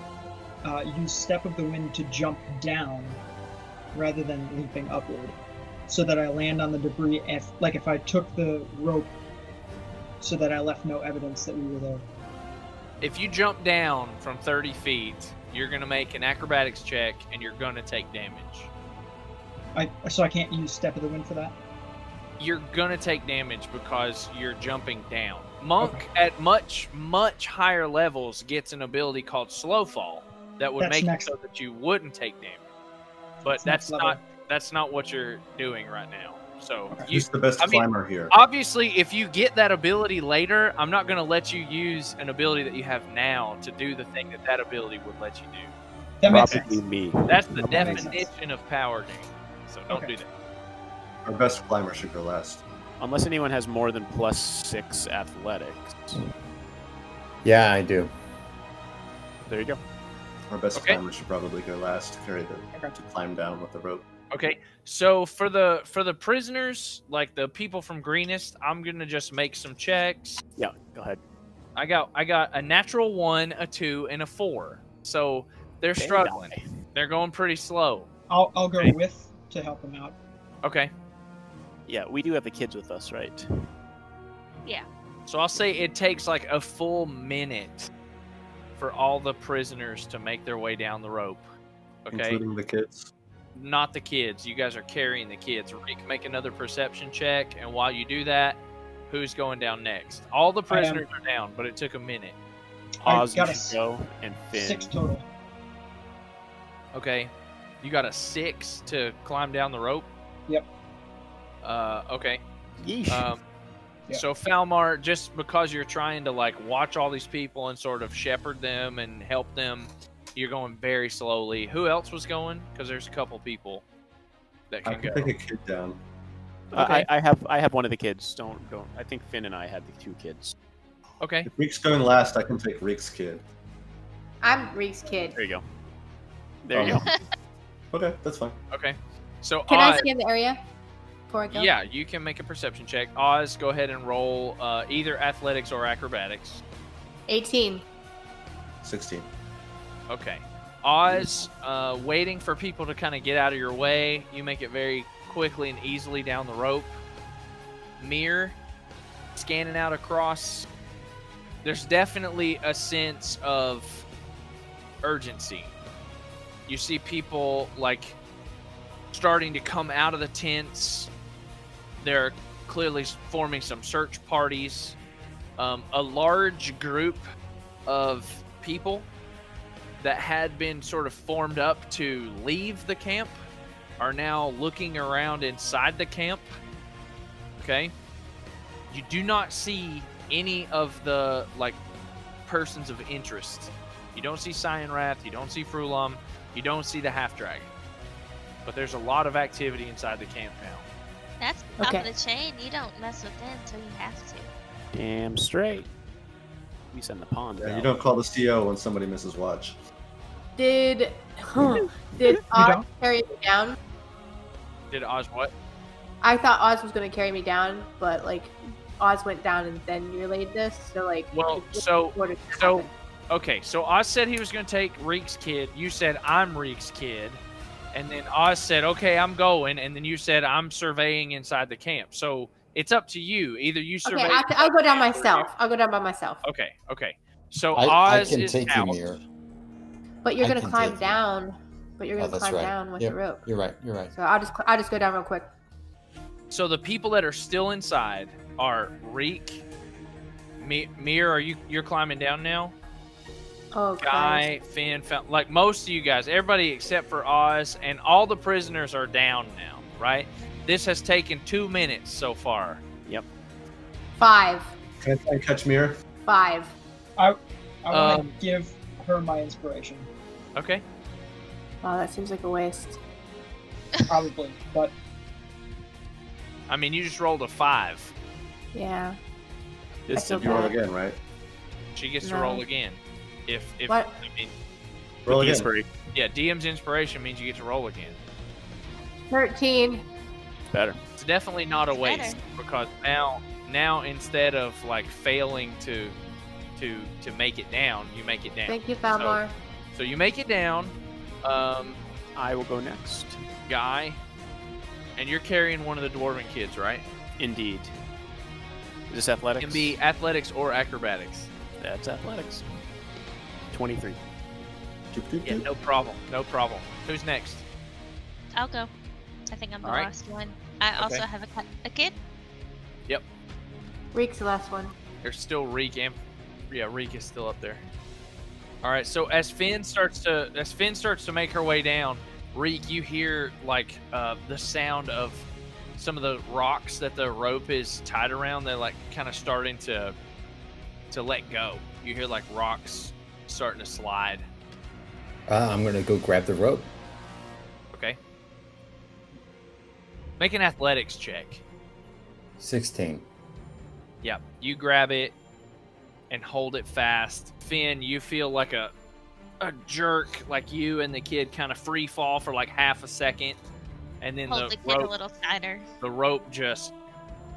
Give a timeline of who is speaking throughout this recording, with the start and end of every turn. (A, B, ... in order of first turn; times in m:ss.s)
0:00.6-0:03.2 A
0:03.9-0:05.4 A
0:05.9-0:09.1 A
0:10.2-0:12.0 A
0:13.0-0:18.7 B
0:19.7-0:21.5 A
0:22.4-0:32.6 B
0:30.8-0:31.3 A
0:33.4-0:34.3 A
0:33.4-0:45.7 B
0:37.1-0:38.3 C
0:46.2-0:46.8 A
0:46.3-0:48.1 D
0:47.3-0:50.3 B
0:47.6-0:48.3 A
0:49.9-0:50.2 A
0:51.2-0:52.6 C
0:53.0-0:56.2 D
0:57.4-0:58.1 E
0:59.5-0:59.8 D
1:00.5-1:04.0 C
1:00.7-1:01.0 B
1:02.7-1:03.0 A
1:04.3-1:10.4 B
1:10.6-1:11.2 D
1:11.8-1:18.1 B
1:16.0-1:16.6 D
1:18.3-1:20.2 A
1:20.6-1:20.9 B
1:21.9-1:23.5 D
1:25.2-1:27.9 B
1:28.8-1:31.5 B
1:32.0-1:32.4 B
1:32.1-1:33.1 C
1:33.5-1:42.3 B
1:40.7-1:41.0 A
1:43.0-1:43.8 A
1:43.0-1:45.0 D
1:44.5-1:45.2 A
1:46.9-1:47.3 B
1:47.8-1:50.1 B
1:51.6-1:52.4 B
1:52.8-1:53.3 D
1:53.1-1:53.4 B
1:54.1-2:03.8 B
2:04.7-2:05.3 B
2:04.8-2:06.0 C
2:06.7-2:10.5 D
2:06.7-2:07.1 B
2:11.2-2:11.5 B
2:11.4-2:13.4 C
2:14.4-2:15.4 F
2:15.3-2:15.6 D
2:16.6-2:17.1 D
2:16.7-2:17.0 C
2:16.9-2:17.2 G
2:17.9-2:18.6 C
2:18.7-2:20.1 B
2:19.7-2:20.6 F
2:21.3-2:21.7 F
2:21.5-2:26.6 B
2:27.3-2:27.8 F
2:28.8-2:29.3 C
2:30.1-2:37.0 B
2:31.1-2:31.4 C
2:38.0-2:38.6 B
2:39.3-2:40.7 B
2:41.6-2:44.0 B
2:45.0-2:45.7 B
2:46.7-2:48.2 B
2:49.1-2:51.1 B
2:52.0-2:55.0 B
2:55.6-2:57.2 B
2:57.8-2:59.1 B
3:00.0-3:03.4 B
3:04.0-3:06.6 B
3:07.6-3:07.9 B
3:08.9-3:11.8 B
3:12.4-3:17.7 B
3:18.6-3:20.8 B
3:21.4-3:24.5 G
3:21.8-3:22.1 F
3:24.9-3:25.9 D
3:26.9-3:27.9 D
3:27.6-3:29.8 C
3:30.6-3:33.8 F
3:32.5-3:32.8 A
3:34.9-3:35.5 B
3:36.2-3:42.9 F
3:41.3-3:47.4 B
3:47.9-3:55.5 B
3:54.0-3:56.4 F
3:56.4-3:59.2 B
3:57.7-3:59.2 E
4:00.2-4:03.5 F
4:00.4-4:01.2 E
4:02.2-4:04.1 E
4:04.1-4:05.5 F
4:06.5-4:09.6 B
4:10.6-4:12.7 B
4:13.7-4:14.5 F
4:14.0-4:22.8 B
4:24.2-4:24.7 F
4:25.0-4:26.0 C
4:26.2-4:26.7 F
4:27.2-4:30.1 A
4:27.9-4:28.3 B
4:30.6-4:30.8 B
4:31.8-4:33.0 F
4:34.1-4:34.9 A
4:36.7-4:38.1 B
4:38.7-4:39.2 F
4:40.1-4:40.7 D
4:40.1-4:40.8 F
4:40.4-4:41.2 C
4:41.9-4:44.5 B
4:42.2-4:42.6 F
4:43.9-4:44.2 F
4:45.2-4:45.7 C
4:45.3-4:45.9 D
4:46.1-4:48.2 B
4:49.3-4:50.0 F
4:50.7-4:51.0 D
4:51.2-4:56.2 B
4:51.9-4:52.4 G
4:56.8-4:59.4 B
4:58.7-4:59.5 F
4:59.9-5:02.0 B
5:02.4-5:03.4 D
5:03.7-5:04.2 B
5:05.2-5:07.0 B
5:07.4-5:07.9 D
5:09.1-5:10.0 D
5:09.6-5:11.5 B
5:11.8-5:12.6 D
5:13.7-5:14.2 D
5:15.1-5:15.7 C
5:15.4-5:17.6 B
5:18.5-5:18.9 G
5:19.5-5:22.1 G
5:19.8-5:20.1 B
5:21.0-5:21.2 B
5:24.1-5:24.9 F
5:25.2-5:26.2 B
5:26.7-5:27.8 B
5:28.8-5:35.4 B
5:36.0-5:40.1 B
5:41.1-5:44.4 B
5:45.5-5:46.9 E
5:47.9-5:48.2 B
5:50.4-5:51.6 B
5:52.6-5:53.2 E
5:54.2-5:55.3 B
5:56.3-5:58.9 B
5:59.6-6:03.6 B
6:04.2-6:05.1 B
6:04.5-6:05.9 G
6:06.0-6:06.9 B